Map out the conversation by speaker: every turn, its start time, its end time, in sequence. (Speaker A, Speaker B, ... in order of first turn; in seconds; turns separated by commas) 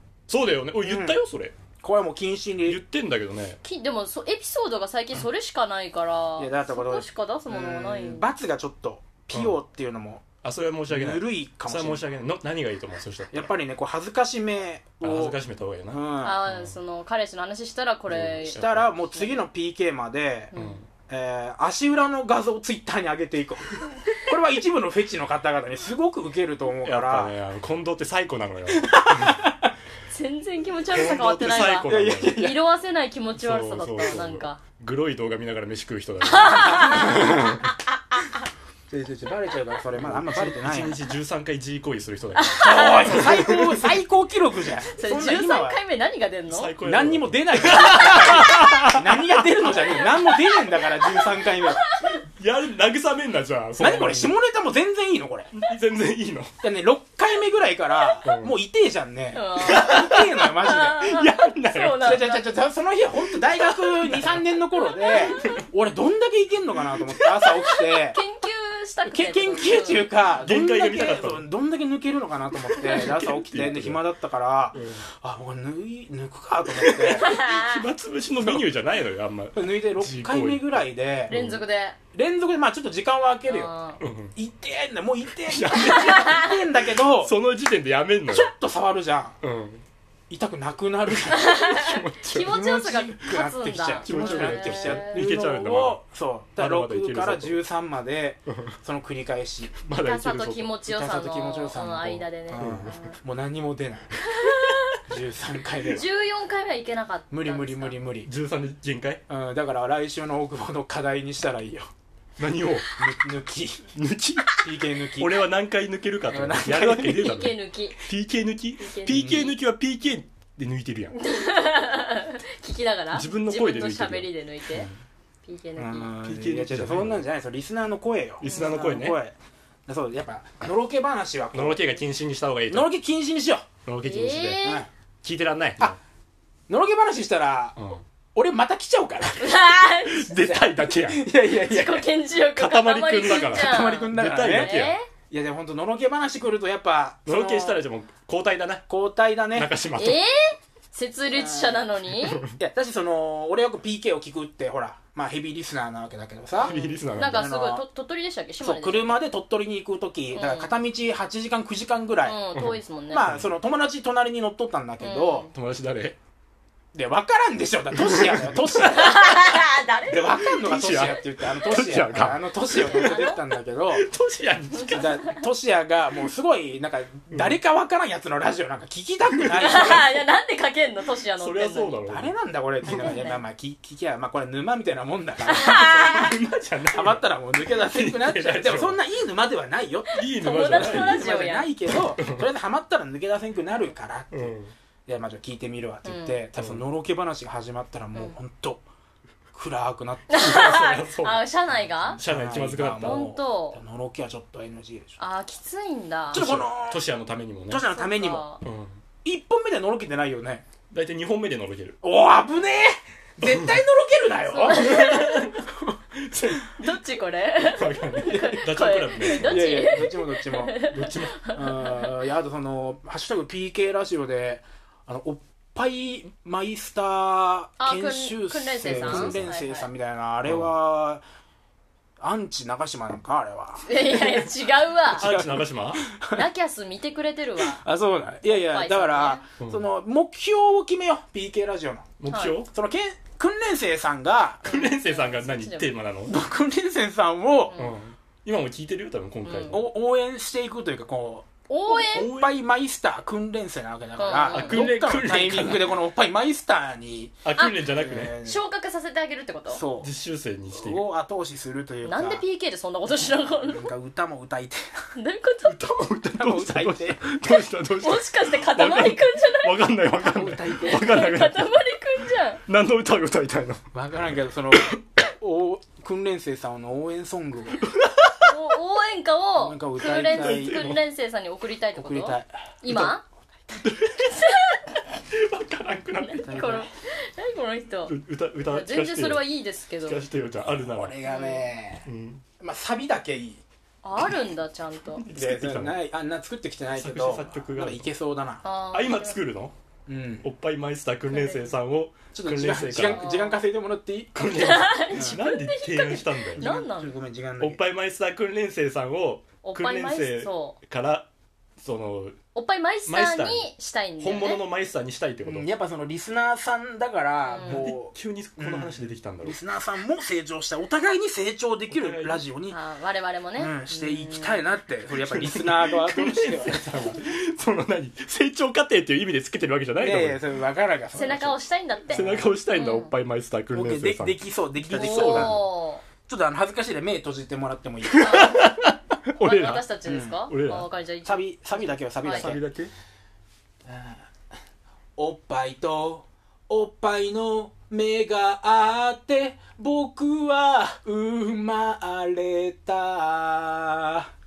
Speaker A: 0.3-1.6, Speaker B: 0.8-1.2, Speaker B: 1.8-2.8, Speaker A: 2.7-3.6, Speaker C: 3.6-8.3, Speaker B: 6.4-10.3, Speaker A: 10.4-13.5, Speaker B: 10.9-12.1, Speaker B: 13.3-15.4, Speaker A: 15.0-16.8, Speaker B: 15.9-16.4, Speaker C: 16.2-19.3, Speaker A: 18.1-18.9, Speaker B: 18.5-20.5, Speaker C: 20.5-20.8, Speaker A: 20.5-20.9, Speaker B: 21.1-27.4, Speaker A: 26.8-29.4, Speaker B: 28.7-29.7, Speaker C: 30.1-34.6, Speaker A: 30.9-32.4, Speaker B: 31.9-32.6, Speaker A: 33.4-37.7, Speaker C: 36.2-37.5, Speaker B: 36.6-37.4, Speaker C: 38.1-38.4, Speaker B: 38.9-41.0, Speaker A: 39.9-43.9, Speaker C: 42.4-43.5, Speaker B: 42.6-45.8, Speaker C: 44.9-46.8, Speaker A: 46.5-49.5, Speaker B: 46.8-51.8, Speaker C: 49.7-52.2, Speaker A: 52.1-54.3, Speaker B: 53.8-55.5, Speaker A: 55.5-56.5, Speaker B: 56.6-61.1, Speaker A: 58.2-58.5, Speaker C: 59.3-62.5, Speaker A: 59.7-62.2, Speaker B: 62.0-68.2, Speaker A: 63.5-64.4, Speaker C: 64.9-65.6, Speaker A: 67.2-67.5, Speaker C: 68.0-70.1, Speaker B: 69.1-77.4, Speaker A: 70.4-71.5, Speaker A: 72.7-74.0, Speaker A: 74.7-75.0, Speaker A: 76.8-80.8, Speaker C: 77.2-77.8, Speaker B: 78.4-78.7, Speaker B: 79.5-81.3, Speaker A: 81.3-81.6, Speaker C: 81.3-82.0, Speaker B: 82.1-83.7, Speaker C: 83.5-84.0, Speaker A: 84.0-84.3, Speaker B: 84.3-87.3, Speaker A: 85.5-86.5, Speaker C: 85.9-86.5, Speaker A: 87.2-88.5, Speaker B: 88.3-89.4, Speaker A: 89.4-89.8, Speaker B: 90.3-91.6, Speaker C: 91.3-95.2, Speaker A: 91.6-92.5, Speaker B: 92.3-99.8, Speaker A: 94.0-96.0, Speaker A: 96.6-97.6, Speaker A: 98.5-98.8, Speaker A: 99.8-100.8, Speaker C: 100.0-103.2, Speaker B: 100.9-104.2, Speaker A: 102.5-103.0, Speaker C: 104.2-105.0, Speaker B: 105.0-106.0, Speaker C: 105.8-108.0, Speaker B: 107.3-108.3, Speaker A: 108.2-109.2, Speaker B: 109.3-111.9, Speaker A: 112.4-112.9, Speaker B: 113.0-113.9, Speaker A: 114.0-114.6, Speaker B: 114.5-115.4, Speaker A: 115.2-121.2, Speaker B: 116.3-117.3, Speaker C: 117.1-118.0, Speaker C: 118.8-119.5, Speaker B: 119.1-119.4, Speaker C: 121.2-124.9, Speaker A: 123.1-124.9, Speaker C: 125.4-126.2, Speaker B: 125.8-129.3, Speaker A: 126.2-127.2, Speaker C: 128.4-128.8, Speaker A: 128.4-129.2, Speaker B: 129.9-131.8, Speaker A: 131.5-132.9, Speaker B: 132.7-133.7, Speaker A: 133.9-134.7, Speaker C: 134.0-134.9, Speaker B: 134.6-134.9, Speaker A: 135.2-136.0, Speaker B: 136.7-137.8, Speaker A: 137.8-138.0, Speaker B: 138.3-139.6, Speaker C: 139.4-140.3, Speaker A: 140.1-141.3, Speaker B: 140.3-142.1, Speaker C: 141.5-145.1, Speaker A: 142.6-144.9, Speaker B: 143.4-147.7, Speaker A: 147.3-148.9, Speaker B: 148.9-149.7, Speaker A: 149.5-150.2, Speaker C: 149.9-152.4, Speaker B: 151.3-151.9, Speaker A: 152.2-152.5, Speaker B: 152.5-157.8, Speaker C: 156.6-159.2, Speaker A: 156.6-157.5, Speaker B: 158.6-162.4, Speaker C: 160.3-160.7, Speaker C: 162.2-163.3, Speaker A: 162.6-163.5, Speaker B: 163.1-165.5, Speaker C: 165.0-165.5, Speaker A: 165.5-166.2, Speaker B: 166.9-174.1, Speaker A: 167.9-169.2, Speaker C: 168.8-171.1, Speaker A: 170.4-173.2, Speaker C: 172.7-173.4, Speaker A: 173.9-175.2, Speaker C: 174.7-175.4, Speaker B: 174.9-180.1, Speaker A: 177.3-177.6, Speaker A: 179.3-180.1, Speaker C: 179.6-182.0, Speaker A: 181.4-183.2, Speaker B: 182.1-186.4, Speaker C: 182.9-183.4, Speaker C: 185.5-186.3, Speaker A: 185.6-189.0, Speaker B: 186.9-194.6, Speaker C: 190.1-191.7, Speaker A: 190.2-191.3, Speaker A: 191.9-192.5, Speaker A: 194.3-194.7, Speaker B: 195.1-198.9, Speaker C: 196.1-196.4, Speaker A: 196.6-196.8, Speaker B: 199.5-200.7, Speaker C: 200.3-202.2, Speaker A: 200.4-201.4, Speaker B: 202.0-205.2, Speaker A: 202.2-203.3, Speaker C: 203.0-203.8, Speaker C: 205.2-206.5, Speaker B: 206.3-207.0, Speaker A: 206.3-207.9, Speaker B: 207.7-208.4, Speaker C: 207.9-208.6, Speaker A: 208.6-209.0, Speaker B: 209.2-210.7, Speaker A: 210.9-212.0, Speaker B: 212.0-216.0, Speaker A: 213.4-213.8, Speaker C: 214.5-215.5, Speaker A: 214.7-216.8, Speaker C: 216.7-222.2, Speaker A: 217.6-219.8, Speaker B: 219.3-220.8, Speaker A: 220.8-221.5, Speaker B: 221.5-231.2, Speaker C: 227.8-229.9, Speaker A: 228.8-229.5, Speaker A: 230.4-230.7, Speaker B: 232.2-234.5, Speaker C: 233.8-235.3, Speaker B: 235.1-236.4, Speaker A: 235.1-236.0, Speaker C: 236.3-237.8, Speaker B: 237.6-244.8, Speaker C: 238.4-239.4, Speaker A: 239.6-239.8, Speaker A: 242.2-242.7, Speaker C: 242.3-242.6, Speaker A: 244.7-246.4, Speaker C: 244.7-245.9, Speaker B: 246.3-247.8, Speaker C: 247.7-248.0, Speaker A: 247.8-249.9, Speaker C: 249.4-249.8, Speaker B: 249.7-258.6, Speaker C: 251.7-252.3, Speaker A: 252.1-252.6, Speaker C: 254.2-255.0, Speaker A: 254.5-256.0, Speaker A: 257.4-258.4, Speaker C: 257.6-257.9, Speaker C: 258.4-259.8, Speaker B: 259.7-260.1, Speaker A: 260.0-261.1, Speaker B: 260.7-262.4, Speaker C: 262.0-263.9, Speaker B: 263.6-264.9, Speaker C: 265.1-265.8, Speaker A: 265.6-271.8, Speaker B: 266.4-267.3, Speaker C: 268.0-269.8, Speaker B: 270.2-271.1, Speaker C: 270.7-272.6, Speaker A: 272.7-273.8, Speaker B: 273.9-277.8, Speaker A: 274.7-275.0, Speaker A: 277.8-278.5, Speaker C: 278.4-283.2, Speaker B: 279.6-280.8, Speaker A: 280.0-281.0, Speaker B: 281.9-282.6, Speaker A: 282.9-283.1, Speaker A: 283.8-284.4, Speaker C: 284.2-284.8, Speaker A: 285.3-286.6, Speaker C: 286.2-288.1, Speaker B: 286.4-286.9, Speaker A: 288.1-289.5, Speaker C: 288.7-290.2, Speaker A: 290.0-291.2, Speaker B: 290.8-292.1, Speaker C: 291.3-291.7, Speaker A: 292.1-292.4, Speaker B: 292.6-293.6, Speaker C: 294.0-295.2, Speaker A: 295.1-296.0, Speaker B: 295.4-298.6, Speaker A: 296.9-298.1, Speaker C: 298.6-299.4, Speaker A: 298.9-299.8, Speaker B: 300.1-300.5, Speaker A: 300.4-303.3, Speaker C: 301.3-301.7, Speaker B: 302.3-304.5, Speaker C: 303.0-303.6, Speaker A: 304.4-306.6, Speaker C: 304.6-307.1, Speaker B: 305.1-305.4, Speaker B: 306.6-307.8, Speaker A: 307.6-311.3, Speaker C: 309.6-310.8, Speaker A: 311.8-312.4, Speaker C: 312.5-314.6, Speaker A: 313.1-315.7, Speaker B: 315.4-322.8, Speaker C: 317.5-317.9, Speaker A: 317.6-319.6, Speaker A: 321.9-322.4, Speaker C: 322.7-324.6, Speaker B: 323.6-327.2, Speaker A: 325.2-330.4, Speaker B: 330.0-332.5, Speaker C: 331.1-333.1, Speaker A: 332.1-335.7, Speaker B: 333.7-335.7, Speaker C: 334.9-336.0, Speaker B: 336.2-338.5, Speaker A: 338.1-339.9, Speaker C: 338.2-338.8, Speaker C: 339.4-342.5, Speaker B: 340.1-340.4, Speaker A: 340.5-340.9, Speaker B: 341.2-342.6, Speaker A: 342.3-342.9, Speaker B: 343.9-344.3, Speaker B: 345.2-354.3